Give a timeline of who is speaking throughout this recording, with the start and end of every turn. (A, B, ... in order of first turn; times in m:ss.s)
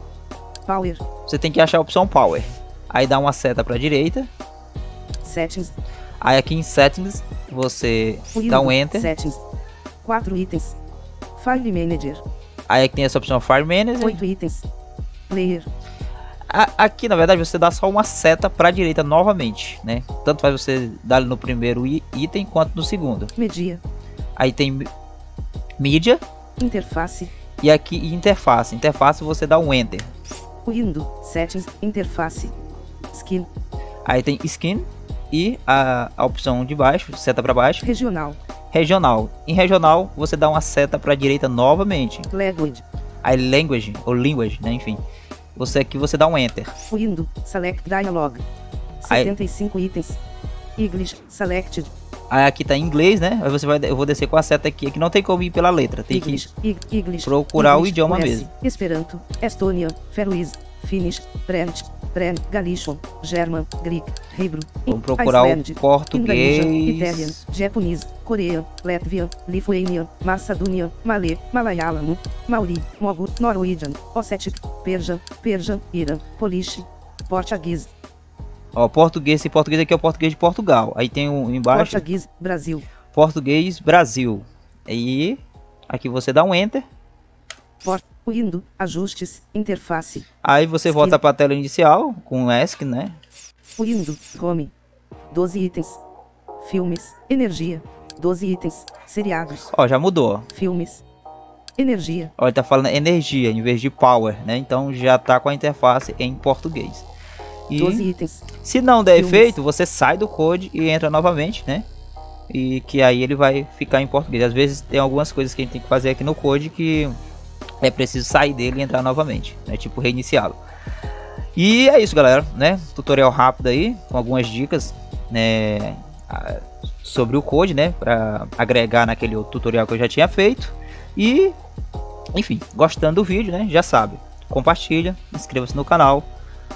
0:00.7-0:01.0 A
0:01.2-0:04.3 B
0:05.2-0:05.7 A
0:06.2-0:09.1 B
0:08.3-0:09.4 A
0:10.0-0:10.8 A
0:11.4-0:12.2 A
0:12.7-0:14.2 B
0:14.0-0:14.7 A
0:15.3-0:15.7 A
0:16.5-0:23.3 B
0:23.4-0:23.8 A
0:24.4-0:24.9 B
0:25.8-0:26.2 B
0:26.6-0:27.3 A
0:27.6-0:30.1 B
0:30.6-0:32.6 A
0:33.1-0:33.5 A
0:34.0-0:37.9 B
0:37.8-0:38.4 A
0:38.7-0:42.3 B
0:42.3-0:42.8 A
0:43.2-0:45.0 B
0:45.6-0:46.7 B
0:46.9-0:48.4 A
0:49.0-0:50.2 A
0:49.1-0:49.3 B
0:50.8-0:51.9 A
0:52.3-0:56.4 B
0:56.1-1:17.9 A
0:57.2-0:58.5 B
1:04.9-1:07.4 B
1:18.8-1:22.0 B
1:21.7-1:22.8 A
1:23.1-1:26.8 B
1:27.8-1:30.2 A
1:30.4-1:33.2 B
1:30.9-1:31.2 A
1:33.8-1:34.7 A
1:35.3-1:36.0 A
1:36.6-1:39.7 A
1:39.7-1:40.4 B
1:40.5-1:41.0 A
1:41.8-1:42.3 A
1:42.4-1:47.1 B
1:47.7-1:48.1 B
1:47.8-1:48.5 A
1:48.6-1:51.9 B
1:49.1-1:49.6 A
1:52.5-1:57.1 B
1:57.8-2:00.6 B
2:01.6-2:11.6 B
2:12.4-2:16.3 B